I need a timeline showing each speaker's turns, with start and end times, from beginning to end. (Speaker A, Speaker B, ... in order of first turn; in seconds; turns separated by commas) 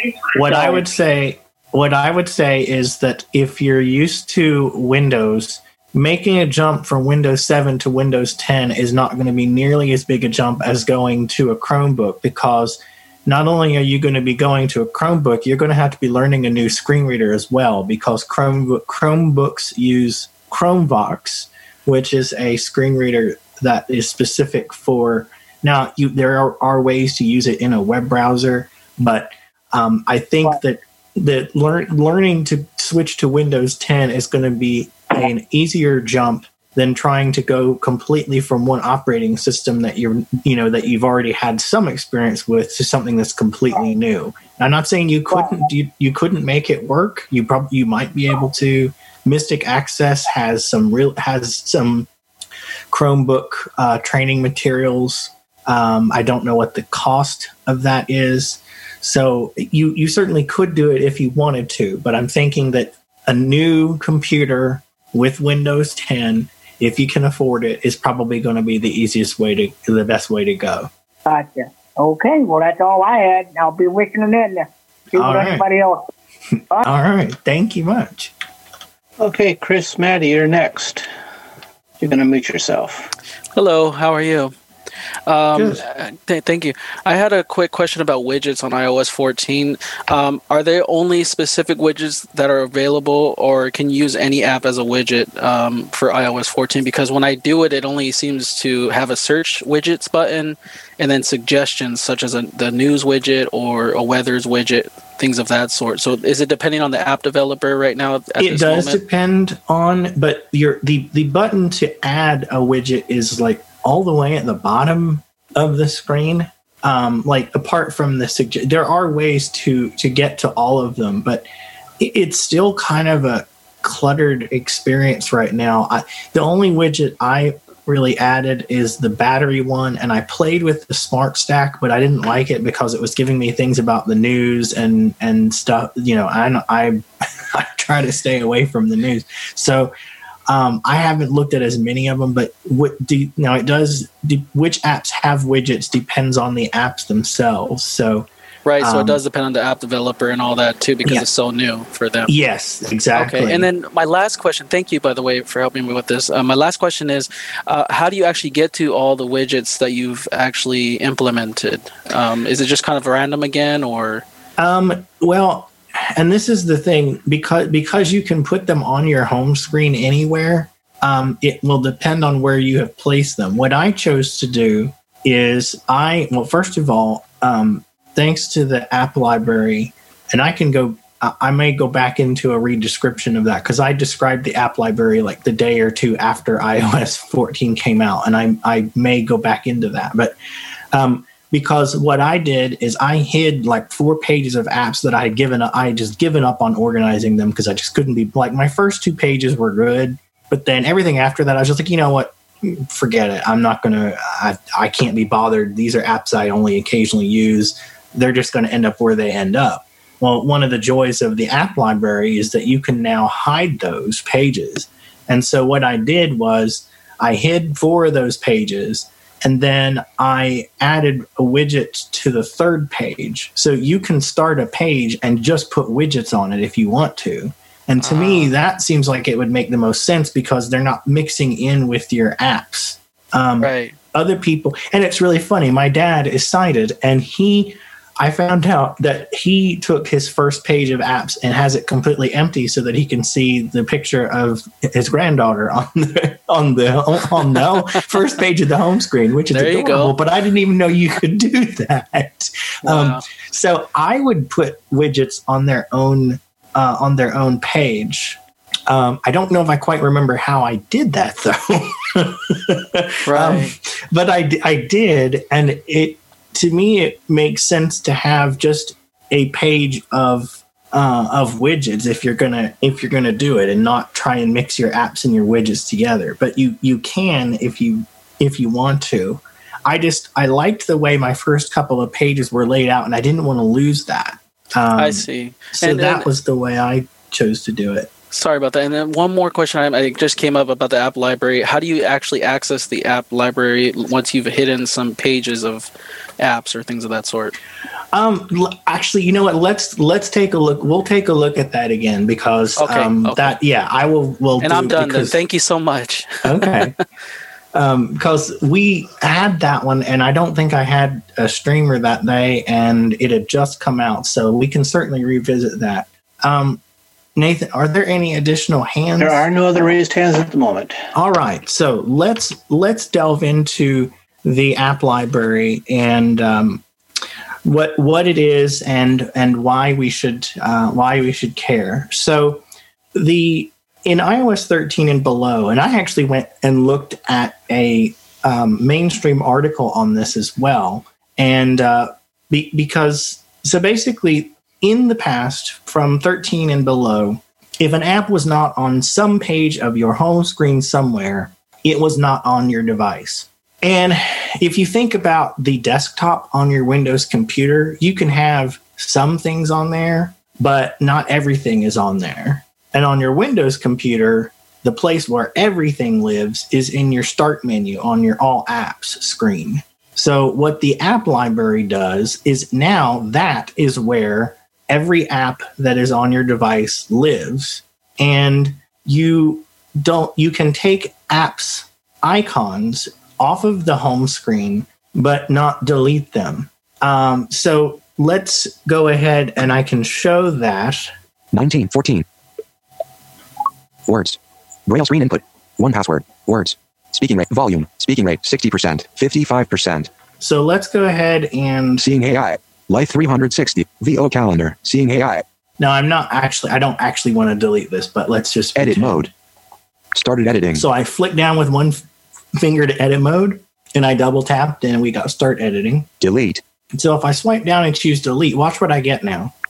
Speaker A: 0.3-0.8, Speaker B: 0.4-52.1, Speaker B: 52.9-70.9, Speaker A: 71.3-76.1, Speaker B: 75.2-75.7, Speaker B: 76.8-78.3, Speaker C: 79.2-81.1, Speaker C: 82.0-83.1, Speaker D: 83.6-84.5, Speaker D: 85.3-109.0, Speaker B: 85.5-85.8, Speaker B: 108.4-121.5, Speaker B: 122.0-137.0, Speaker B: 137.5-139.9, Speaker B: 140.5-148.3, Speaker D: 148.6-152.3, Speaker B: 148.8-149.2, Speaker B: 152.3-153.7, Speaker D: 153.1-164.2, Speaker B: 164.6-190.3, Speaker B: 190.9-288.1, Speaker D: 228.0-228.5, Speaker D: 233.6-233.9, Speaker D: 249.5-250.1, Speaker D: 252.8-253.2, Speaker D: 263.2-263.7, Speaker D: 285.0-286.3, Speaker D: 288.3-297.6, Speaker B: 298.1-305.4, Speaker D: 302.8-303.6, Speaker D: 304.6-306.9, Speaker B: 306.4-306.9, Speaker B: 307.7-316.8, Speaker B: 317.4-319.5, Speaker C: 319.2-321.1, Speaker B: 321.1-326.8, Speaker B: 327.6-332.6, Speaker B: 333.1-391.1, Speaker E: 391.5-392.3, Speaker E: 394.1-400.1, Speaker B: 400.4-402.1, Speaker E: 402.0-405.4, Speaker B: 405.8-409.3, Speaker E: 408.8-409.3, Speaker E: 410.1-410.9, Speaker B: 410.8-412.0, Speaker B: 412.6-416.1, Speaker E: 416.2-416.6, Speaker B: 416.9-419.5